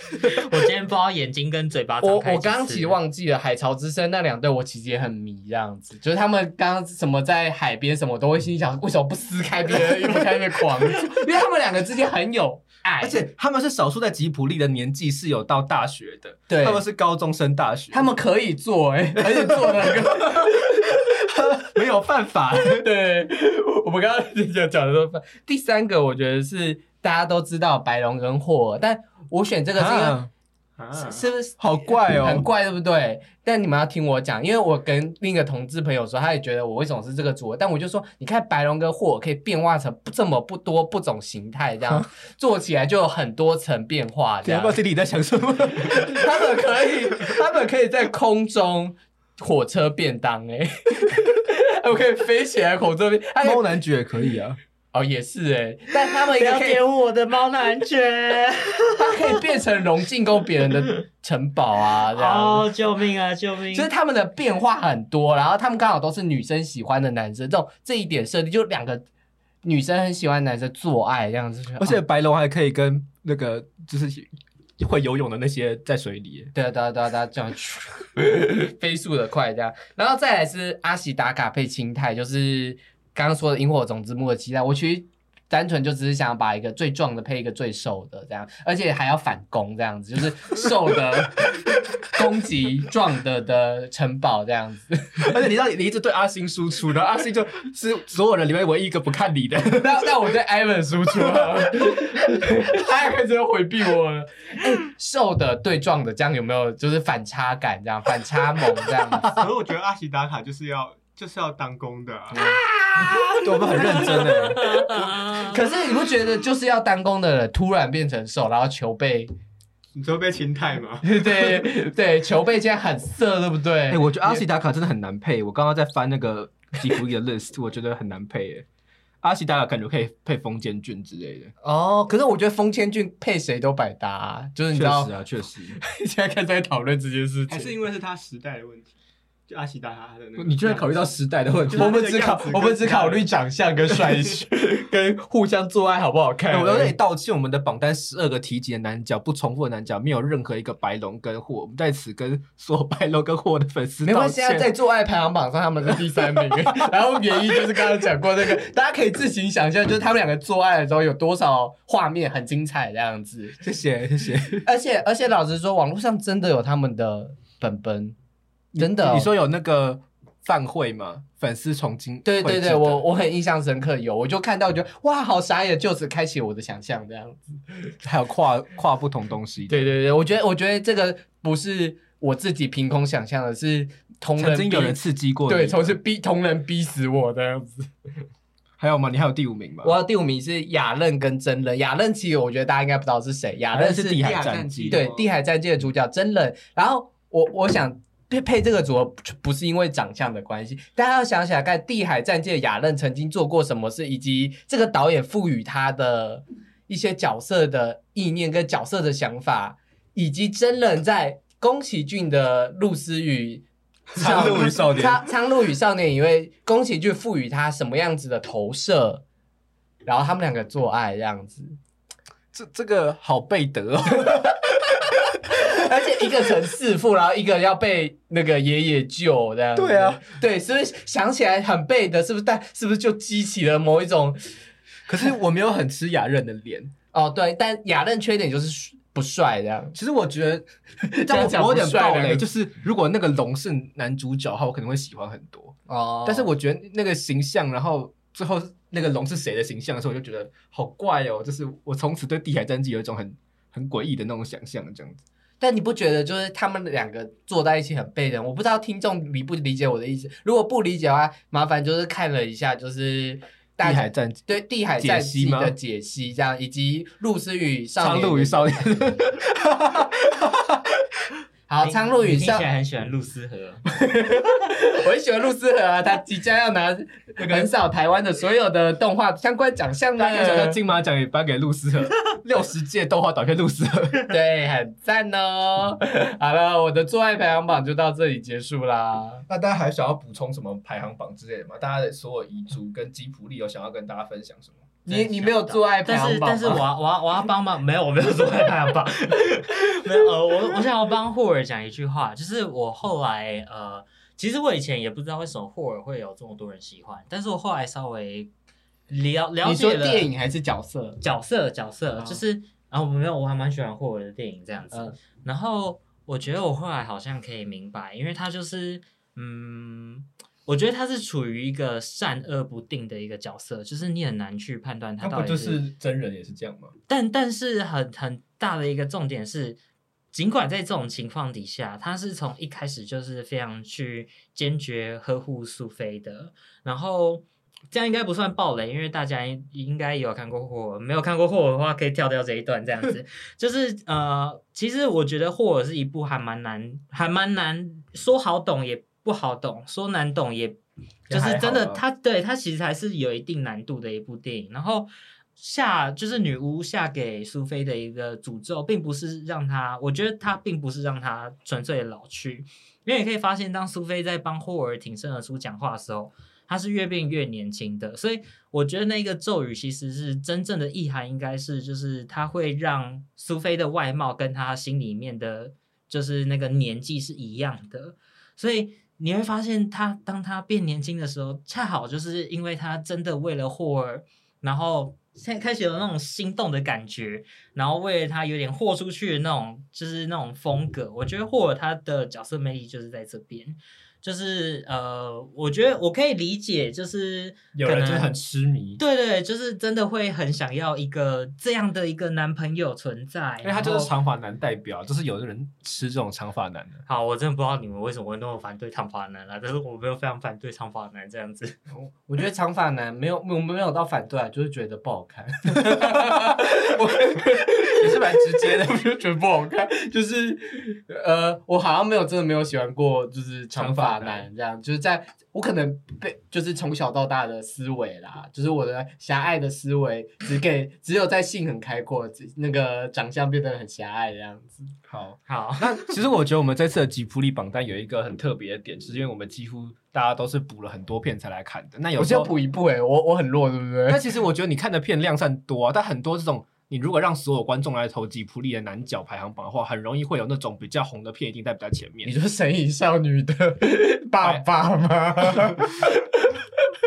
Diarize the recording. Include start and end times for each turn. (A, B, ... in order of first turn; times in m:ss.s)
0:00.2-0:03.0 A
0:02.0-0:13.2 B
0:13.0-0:18.1 C
0:16.5-0:16.8 B
0:17.9-0:21.0 B
0:19.3-0:20.4 C
0:21.3-0:22.9 C
0:22.7-0:30.2 B
0:29.8-0:30.3 C
0:30.8-0:31.2 D
0:30.9-0:44.8 B
0:31.6-0:32.5 C
0:44.4-0:46.5 C
0:45.9-0:53.7 B
0:53.4-0:54.6 C
0:54.9-0:56.8 B
0:56.1-0:59.3 A
0:58.9-1:02.7 B
1:02.0-1:03.9 A
1:03.7-1:09.0 B
1:09.6-1:12.0 B
1:11.8-1:16.5 C
1:16.5-1:35.4 B
1:35.2-1:40.2 C
1:39.8-1:49.4 B
1:49.2-1:52.6 D
1:52.3-1:59.3 B
1:53.4-1:54.7 C
1:54.3-1:55.6 A
1:59.9-2:01.3 D
2:01.0-2:04.4 B
2:03.9-2:08.6 C
2:09.2-2:11.5 C
2:11.6-2:15.1 B
2:14.7-2:15.8 C
2:15.7-2:17.7 B
2:17.5-2:18.9 D
2:19.5-2:20.9 D
2:20.4-2:22.0 C
2:21.7-2:23.3 D
2:21.7-2:26.9 B
2:26.5-2:34.7 C
2:34.0-2:43.6 B
2:35.9-2:36.7 C
2:43.6-2:44.6 C
2:44.6-2:48.1 B
2:48.7-2:53.0 C
2:48.8-2:49.3 B
2:52.2-2:57.9 B
2:58.0-2:59.9 C
2:59.7-3:07.9 B
3:04.4-3:06.0 C
3:08.8-3:09.9 C
3:09.8-3:14.3 B
3:13.7-3:15.0 C
3:14.1-3:15.3 D
3:14.9-3:39.2 B
3:34.1-3:35.2 C
3:40.0-3:41.8 B
3:42.5-3:44.5 C
3:45.5-3:54.5 B
3:49.7-3:50.2 C
3:55.1-3:56.9 C
3:57.1-3:59.9 B
3:59.9-4:00.6 C
4:01.0-4:02.4 B
4:01.2-4:15.2 C
4:05.9-4:06.5 B
4:15.6-4:28.8 B
4:23.8-4:25.8 C
4:28.0-4:30.6 C
4:31.7-4:32.7 B
4:31.8-4:33.8 A
4:34.0-4:40.8 B
4:37.4-4:37.7 C
4:40.2-4:44.3 C
4:44.3-4:49.4 B
4:49.5-4:54.8 C
4:55.0-4:56.8 B
4:55.1-5:08.5 A
5:09.1-5:10.3 A
5:09.6-5:11.2 B
5:11.2-5:25.8 A
5:25.2-5:26.9 C
5:27.1-5:29.8 A
5:30.3-6:38.4 A
5:51.3-5:52.0 C
6:37.7-6:39.0 C
6:39.0-6:44.1 A
6:43.6-6:47.0 C
6:47.0-6:51.8 A
6:51.9-7:14.9 B
6:55.8-6:56.4 C
6:57.9-6:58.9 C
7:03.7-7:04.5 C
7:15.1-7:22.5 C
7:15.4-7:16.0 A
7:22.2-7:24.2 B
7:24.1-7:32.3 C
7:32.2-7:36.2 B